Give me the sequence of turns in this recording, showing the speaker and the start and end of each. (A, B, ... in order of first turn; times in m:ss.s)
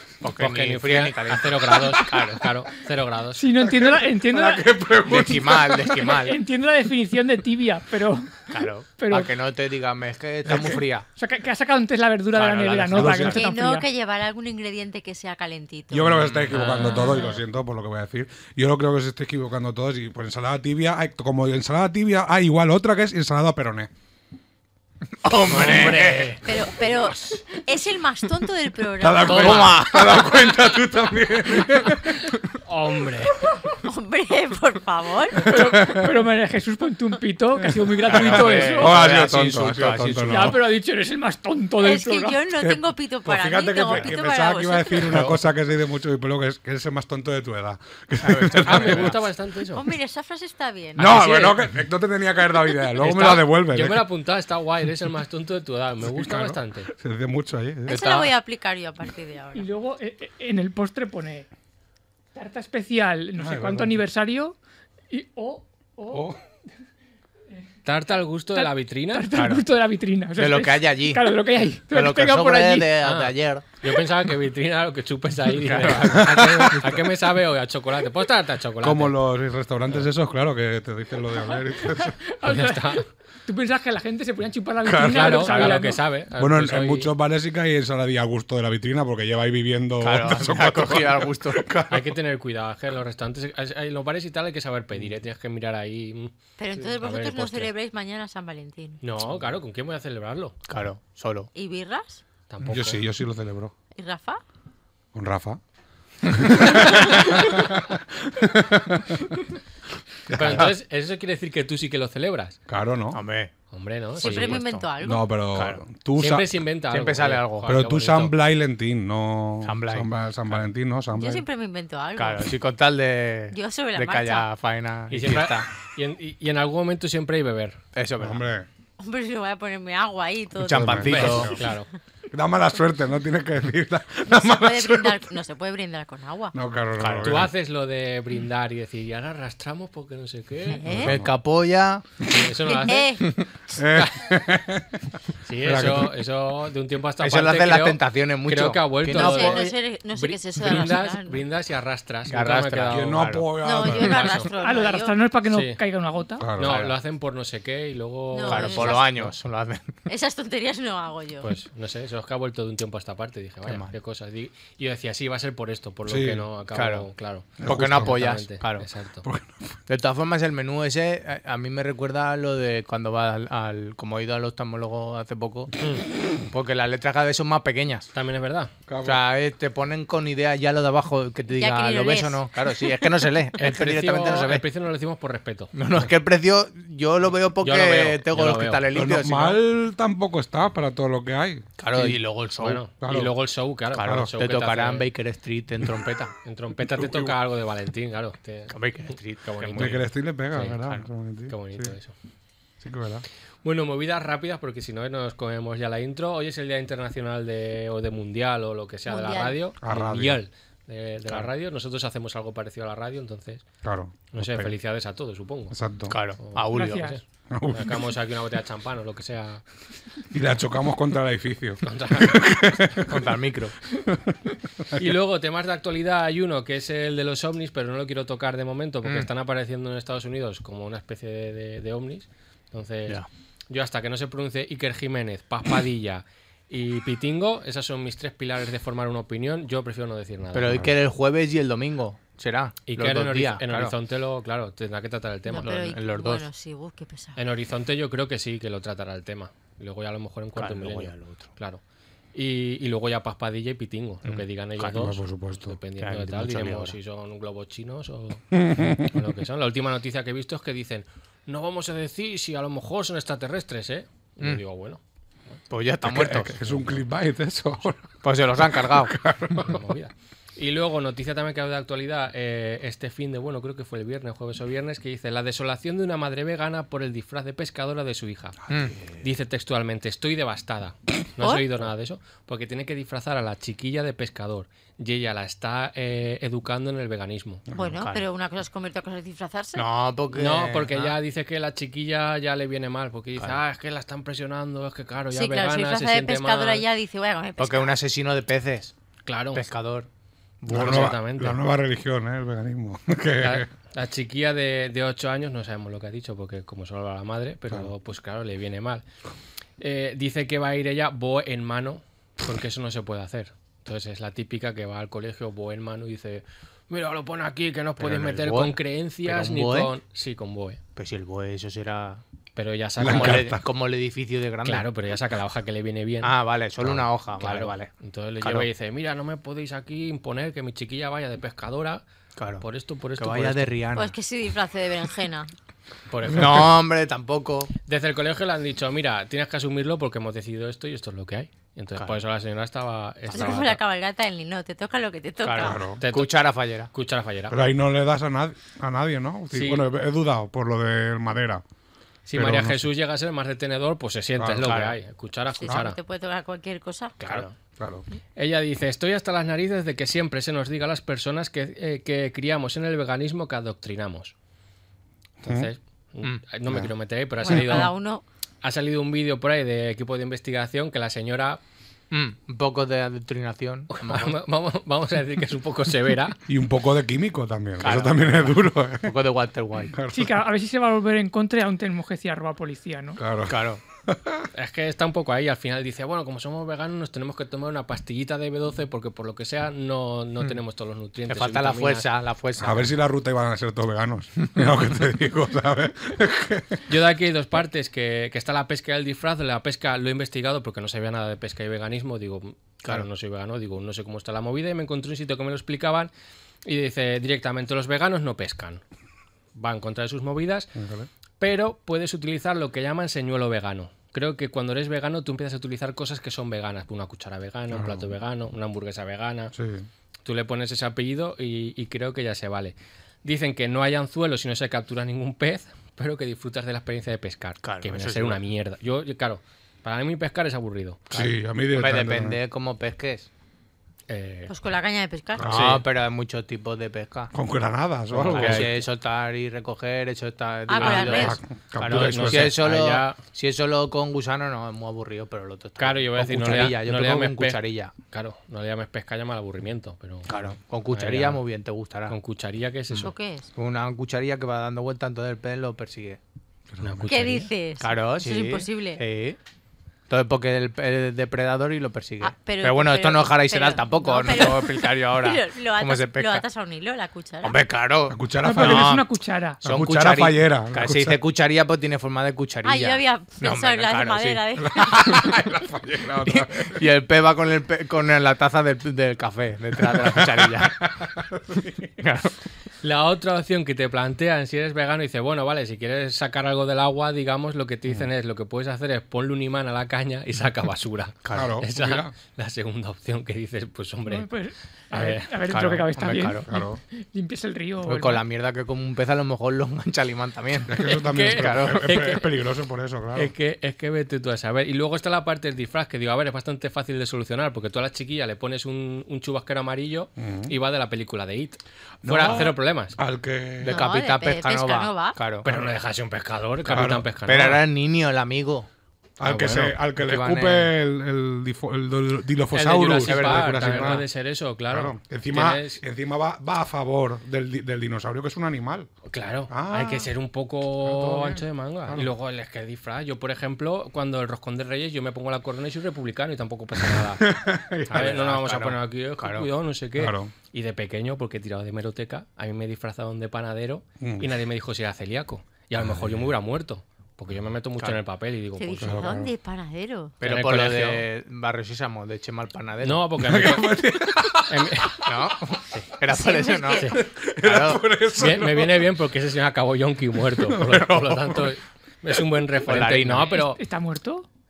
0:00.2-0:02.4 A
0:00.4-0:03.5 B
0:03.4-0:09.3 C
0:03.6-0:06.0 D
0:05.0-0:06.4 A
0:08.5-0:11.1 A
0:10.4-0:10.8 D
0:11.2-0:13.9 C
0:12.3-0:13.4 A
0:12.9-0:13.4 D
0:13.3-0:17.4 E
0:15.9-0:23.9 D
0:16.5-0:17.2 B
0:25.2-0:26.4 A
0:25.4-0:26.4 B
0:26.4-0:30.6 E
0:29.0-0:32.5 D
0:29.3-0:30.3 A
0:32.6-0:33.4 B
0:33.7-0:35.4 E
0:35.4-0:39.2 C
0:35.4-0:36.2 D
0:37.6-0:40.6 D
0:38.1-0:40.6 A
0:40.2-0:42.4 C
0:41.8-0:45.3 E
0:42.6-0:49.2 D
0:48.2-0:49.2 A
0:48.6-0:49.8 B
0:49.7-0:51.3 E
0:51.0-0:54.1 D
0:51.0-0:51.7 B
0:53.0-0:56.9 B
0:56.0-0:58.0 D
0:57.9-0:58.3 A
0:57.9-0:59.7 E
0:59.5-1:01.5 C
1:02.3-1:04.6 C
1:03.4-1:04.0 D
1:05.1-1:06.4 C
1:06.1-1:06.4 D
1:07.8-1:09.3 B
1:08.5-1:13.0 C
1:09.3-1:09.7 A
1:10.4-1:11.4 A
1:11.9-1:13.6 A
1:13.0-1:19.2 B
1:15.5-1:16.9 A
1:16.2-1:16.7 D
1:18.8-1:22.2 D
1:21.5-1:26.0 C
1:22.4-1:23.0 B
1:24.8-1:25.8 D
1:25.1-1:27.1 B
1:26.4-1:32.1 D
1:30.0-1:31.7 A
1:31.9-1:37.7 B
1:36.6-1:39.0 E
1:39.0-1:40.6 B
1:40.7-1:41.5 A
1:41.5-1:42.2 E
1:42.5-1:43.0 B
1:42.6-1:43.8 D
1:44.0-1:44.4 E
1:45.1-1:45.6 D
1:46.2-1:49.3 D
1:46.8-1:47.3 B
1:50.3-1:50.7 D
1:50.3-1:52.6 B
1:52.7-1:53.2 D
1:53.1-1:53.5 A
1:53.7-1:54.6 B
1:54.2-1:54.9 A
1:54.2-1:55.3 E
1:55.0-1:56.6 D
1:55.5-1:55.8 A
1:56.2-1:58.4 B
1:56.9-1:57.7 A
1:57.6-2:01.4 D
1:59.6-2:00.1 A
2:01.1-2:02.6 E
2:02.2-2:05.7 A
2:03.5-2:04.5 E
2:05.1-2:07.8 B
2:07.9-2:08.4 A
2:08.2-2:08.7 D
2:09.0-2:11.5 E
2:10.6-2:11.5 A
2:10.7-2:11.6 D
2:11.1-2:11.9 B
2:12.3-2:15.3 D
2:14.3-2:16.6 E
2:16.5-2:17.5 D
2:17.0-2:17.5 A
2:17.2-2:20.8 B
2:20.7-2:21.2 E
2:20.8-2:21.3 D
2:20.9-2:22.0 A
2:22.2-2:23.1 B
2:22.2-2:22.5 D
2:22.7-2:23.3 E
2:23.2-2:26.2 D
2:24.0-2:24.4 B
2:25.4-2:33.3 B
2:27.2-2:29.7 A
2:29.1-2:31.4 E
2:32.3-2:33.5 A
2:32.9-2:34.4 D
2:33.6-2:35.2 E
2:33.9-2:34.5 B
2:34.6-2:36.6 C
2:35.5-2:35.8 B
2:36.4-2:36.7 D
2:36.6-2:39.3 B
2:36.6-2:37.0 A
2:38.3-2:39.1 E
2:38.5-2:39.9 A
2:40.1-2:41.5 E
2:41.4-2:49.3 B
2:43.6-2:43.9 A
2:46.1-2:46.5 D
2:46.7-2:47.1 A
2:47.6-2:48.4 D
2:47.6-2:48.9 A
2:49.2-2:49.8 D
2:49.9-2:55.7 A
2:56.4-2:58.1 A
2:58.1-2:58.7 B
2:58.9-2:59.2 D
2:59.0-3:04.6 A
3:01.5-3:02.4 E
3:03.6-3:05.7 B
3:05.7-3:09.6 A
3:07.6-3:08.8 B
3:08.9-3:12.2 D
3:11.8-3:12.8 A
3:12.6-3:15.1 B
3:12.9-3:13.4 D
3:13.9-3:16.3 A
3:14.0-3:14.3 D
3:16.4-3:20.8 B
3:17.0-3:17.4 D
3:18.7-3:20.0 A
3:19.8-3:22.0 D
3:21.5-3:22.1 B
3:22.8-3:23.2 D
3:23.6-3:33.6 B
3:29.1-3:29.6 E
3:29.8-3:30.4 D
3:33.8-3:34.7 D
3:34.3-3:35.8 B
3:35.7-3:36.2 D
3:36.1-3:37.1 A
3:36.4-3:39.6 B
3:36.7-3:37.2 C
3:37.5-3:38.1 D
3:40.3-3:43.3 D
3:41.8-3:42.4 B
3:43.1-3:43.8 A
3:44.0-3:44.4 D
3:44.9-4:00.9 B
3:49.0-3:49.3 A
4:00.5-4:03.9 A
4:02.9-4:05.8 B
4:05.5-4:07.4 E
4:05.6-4:06.4 A
4:07.4-4:11.8 B
4:10.6-4:11.5 A
4:12.3-4:25.0 B
4:14.2-4:15.0 A
4:14.8-4:15.8 D
4:16.0-4:17.0 A
4:18.5-4:19.2 D
4:25.7-4:26.6 A
4:26.0-4:29.9 D
4:26.6-4:27.0 B
4:28.2-4:29.2 A
4:29.6-4:47.6 B
4:38.7-4:39.0 A
4:41.4-4:41.6 E
4:47.8-4:48.2 A
4:47.8-4:49.9 E
4:49.8-4:51.2 A
4:50.3-4:56.9 B
4:53.4-4:53.6 A
4:55.3-4:58.0 E
4:57.6-4:58.9 A
4:59.3-4:59.7 B
4:59.5-5:00.1 A
5:00.6-5:01.2 A
5:00.7-5:01.6 B
5:00.7-5:03.7 D
5:03.4-5:09.0 B
5:09.8-5:20.8 B
5:18.0-5:19.9 A
5:21.0-5:22.2 A
5:22.6-5:23.5 B
5:23.0-5:23.6 D
5:23.0-5:24.9 A
5:24.6-5:26.4 B
5:26.2-5:28.7 A
5:26.8-5:27.0 D
5:27.4-5:32.0 B
5:32.4-5:32.6 A
5:32.6-5:33.8 B
5:33.2-5:34.2 A
5:34.0-5:35.5 E
5:36.1-5:36.7 B
5:36.3-5:37.7 A
5:37.9-5:43.8 B
5:43.3-5:43.6 A
5:43.3-5:45.8 E
5:45.4-5:46.9 A
5:45.6-5:46.0 D
5:46.0-5:46.3 B
5:46.9-5:47.6 B
5:47.5-5:51.6 D
5:49.5-5:49.8 B
5:52.3-5:56.0 B
5:52.3-5:52.9 D
5:54.4-5:54.8 D
5:54.6-5:55.0 A
5:55.5-5:57.2 E
5:57.2-5:57.5 A
5:57.8-5:58.0 D
5:58.4-6:04.3 B
6:05.4-6:05.7 D
6:05.4-6:07.9 B
6:06.7-6:06.9 D
6:07.4-6:08.2 E
6:08.6-6:11.6 B
6:12.1-6:14.4 A
6:13.9-6:16.4 B
6:16.5-6:19.2 D
6:17.8-6:20.0 A
6:19.9-6:20.4 D
6:20.1-6:23.2 C
6:23.2-6:24.5 D
6:23.5-6:23.8 A
6:24.5-6:32.1 B
6:31.3-6:32.9 A
6:32.6-6:36.8 D
6:36.9-6:46.1 B
6:46.6-6:48.8 B
6:49.6-6:50.7 B
6:50.8-6:51.1 D
6:51.4-6:59.5 B
6:57.7-6:58.1 D
6:59.5-6:59.9 D
7:00.2-7:11.0 B
7:07.6-7:08.4 A
7:11.1-7:13.3 A
7:11.1-7:12.4 D
7:14.1-7:14.5 B
7:14.5-7:15.6 E
7:15.4-7:15.8 D
7:15.5-7:17.3 A
7:17.3-7:18.8 D
7:18.1-7:27.9 A
7:18.2-7:18.7 B
7:20.7-7:21.4 E
7:20.8-7:23.2 B
7:21.0-7:22.6 D
7:25.8-7:30.3 B
7:30.3-7:32.2 A
7:30.9-7:31.4 B
7:32.1-7:33.1 B
7:32.9-7:36.2 A
7:33.0-7:33.5 E
7:36.7-7:37.2 D
7:36.8-7:37.5 B
7:37.1-7:39.0 E
7:37.8-7:39.4 A
7:40.1-7:46.4 A
7:42.2-7:47.6 E
7:47.4-7:49.1 A
7:48.1-7:49.0 D
7:48.4-7:49.6 C
7:49.6-7:51.2 D
7:49.6-7:54.4 A
7:52.6-7:55.2 E
7:54.6-7:56.9 D
7:56.2-8:00.9 A
7:59.8-8:02.0 D
8:02.0-8:02.3 A
8:02.8-8:14.3 B
8:11.2-8:11.6 A
8:11.3-8:12.1 D
8:14.1-8:18.2 C
8:14.9-8:15.3 B
8:15.5-8:16.5 A
8:16.5-8:16.8 D
8:17.8-8:22.1 A
8:20.7-8:23.3 D
8:20.8-8:22.3 B
8:23.2-8:33.0 B
8:30.2-8:30.6 D
8:32.0-8:33.8 D
8:33.6-8:35.5 A
8:33.6-8:35.2 E
8:35.4-8:37.6 B
8:36.7-8:37.0 D
8:36.7-8:38.7 A
8:39.2-8:44.1 D
8:39.2-8:39.6 B
8:39.3-8:40.7 A
8:42.5-8:45.8 B
8:43.0-8:44.0 A
8:44.7-8:48.9 D
8:49.1-8:57.3 B
8:49.5-8:50.1 D
8:50.8-8:52.1 D
8:56.8-8:58.2 D
8:57.9-8:59.5 A
8:57.9-9:09.1 B
9:00.0-9:00.3 D
9:04.0-9:04.3 D
9:05.8-9:06.3 D
9:08.6-9:10.2 E
9:08.8-9:09.3 D
9:10.2-9:13.0 A
9:10.2-9:11.0 B
9:12.8-9:15.0 B
9:13.2-9:15.3 D
9:15.0-9:17.8 A
9:16.1-9:17.0 E
9:16.9-9:19.0 D
9:18.2-9:23.6 B
9:20.3-9:21.6 D
9:22.6-9:23.4 A
9:23.3-9:24.3 C